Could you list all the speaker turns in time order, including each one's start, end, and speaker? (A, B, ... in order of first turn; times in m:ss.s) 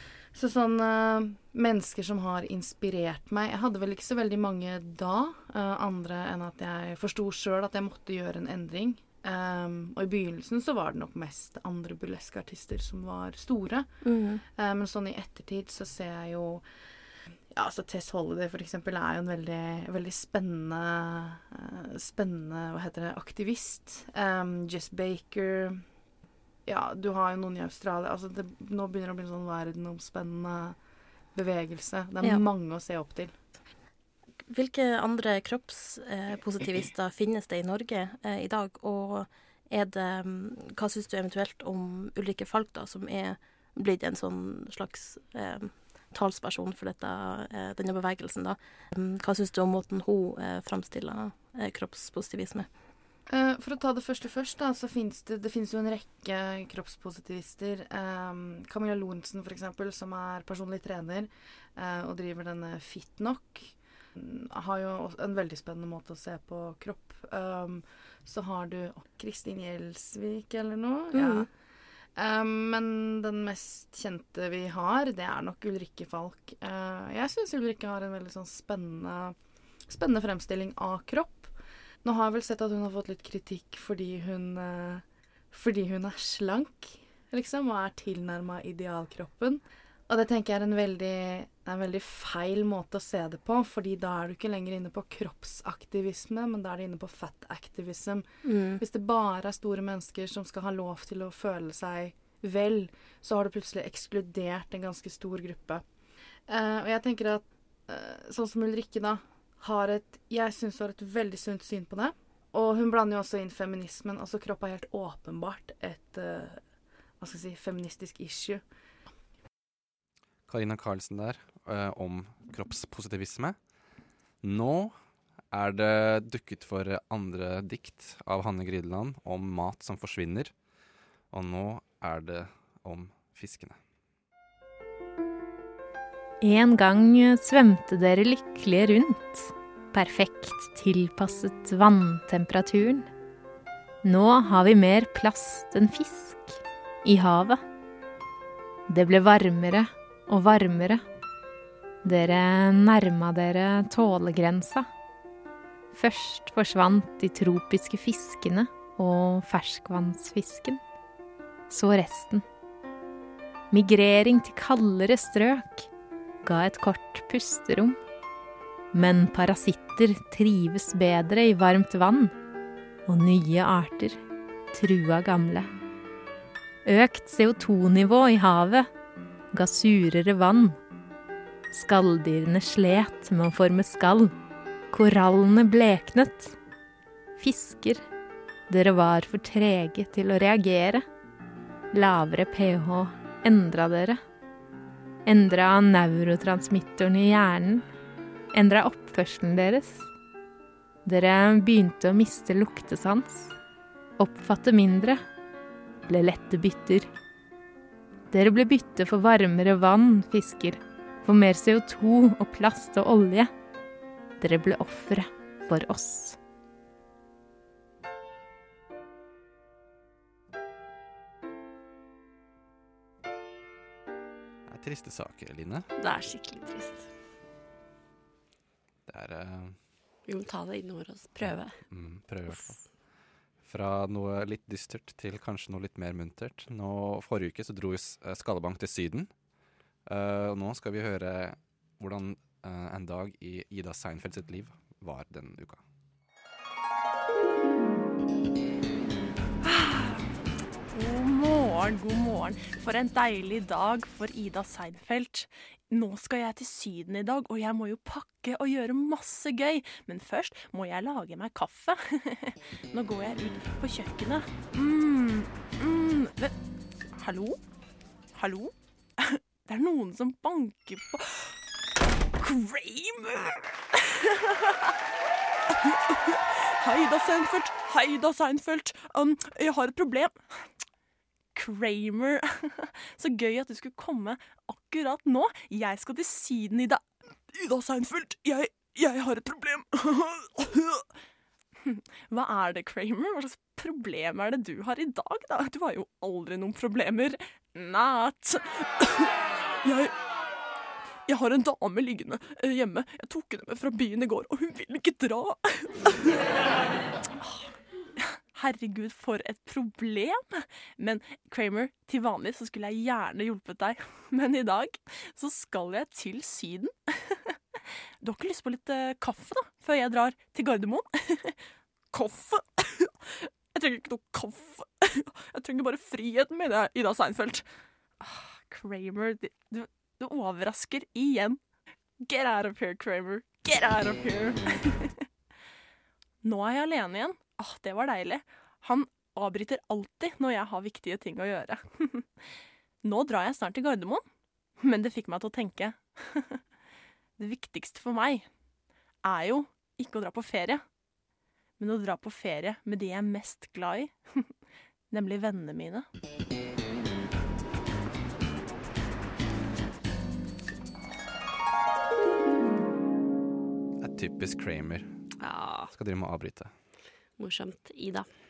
0:00.3-0:16.6 A
0:14.0-0:14.4 B
0:17.5-0:25.8 A
0:26.6-0:30.8 A
0:31.3-0:33.3 A
0:34.4-0:52.7 B
0:53.3-1:11.5 A
1:11.1-1:11.5 B
1:12.2-1:19.3 A
1:19.9-1:21.5 A
1:22.0-1:45.8 A
1:38.4-1:38.8 B
1:46.5-1:56.6 A
1:57.2-1:58.6 A
2:00.5-2:03.6 C
2:04.4-2:04.9 C
2:05.5-2:10.5 C
2:11.3-2:13.8 C
2:16.4-2:23.1 D
2:24.0-2:27.6 D
2:28.9-2:31.0 D
2:32.0-2:34.9 D
2:35.9-2:40.8 D
2:41.7-2:42.4 D
2:43.7-2:45.9 D
2:46.4-2:48.0 D
2:48.9-2:52.3 D
2:53.1-2:54.2 D
2:54.7-2:55.7 D
2:56.8-2:58.9 D
2:59.5-3:00.8 D
3:01.7-3:04.3 D
3:04.9-3:06.6 D
3:07.4-3:08.0 D
3:08.7-3:11.0 D
3:11.9-3:14.2 D
3:15.2-3:17.8 D
3:18.5-3:20.1 D
3:21.0-3:23.5 D
3:24.2-3:25.2 D
3:26.1-3:27.1 D
3:28.3-3:33.5 D
3:34.4-3:36.4 D
3:44.6-3:45.9 C
3:46.0-3:47.1 E
3:49.1-3:49.8 C
3:50.3-3:51.8 E
3:51.4-3:52.8 C
3:53.6-3:59.3 C
4:00.0-4:05.8 C
4:09.6-4:10.3 F
4:10.9-4:26.6 F
4:27.2-4:27.6 F
4:28.3-4:31.6 F
4:32.4-4:34.9 F
4:35.7-4:40.7 F
4:41.5-4:51.1 F
4:51.8-5:00.2 F
5:01.3-5:06.3 F
5:08.2-5:27.7 F
5:28.2-5:31.6 F
5:32.2-5:35.2 F
5:36.4-5:42.4 F
5:43.0-5:44.2 F
5:44.8-5:46.6 F
5:47.4-5:48.5 F
5:49.2-5:50.8 F
5:51.8-5:54.5 F
5:55.1-5:56.0 F
6:04.0-6:05.1 C
6:05.4-6:05.9 E
6:05.8-6:06.7 C
6:07.4-6:08.3 E